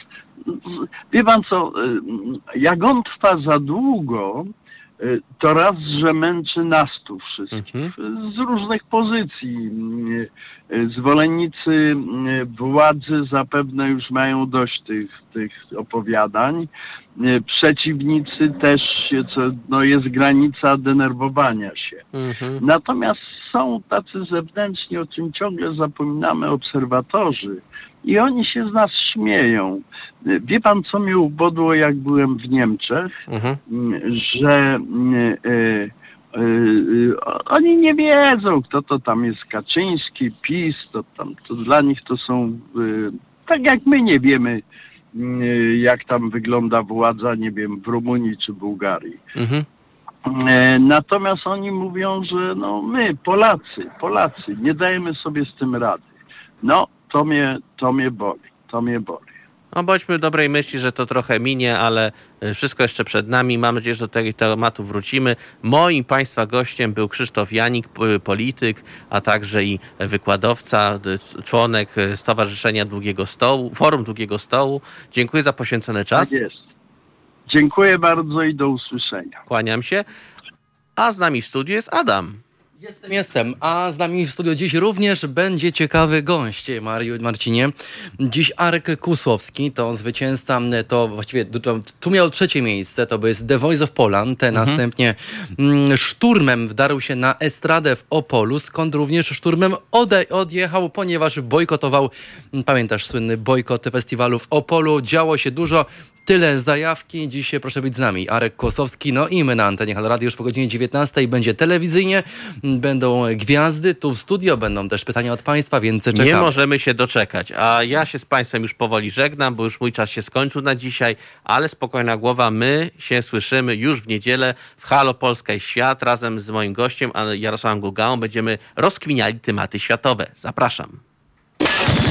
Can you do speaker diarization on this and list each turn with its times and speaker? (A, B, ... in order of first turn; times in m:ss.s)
0:00.4-0:22.0 A
0:07.5-0:07.9 B
0:22.1-0:22.6 B
0:22.6-0:33.2 A
0:33.3-0:33.6 B
0:33.7-0:44.6 A
0:45.1-0:49.2 A
0:49.4-0:49.6 B
0:50.2-0:59.3 A
0:59.7-1:16.4 B
1:16.2-1:16.6 A
1:17.5-1:19.4 A
1:19.5-1:20.0 B
1:21.0-1:22.4 B
1:23.0-1:56.5 C
1:34.5-1:34.8 B
1:56.1-2:11.0 B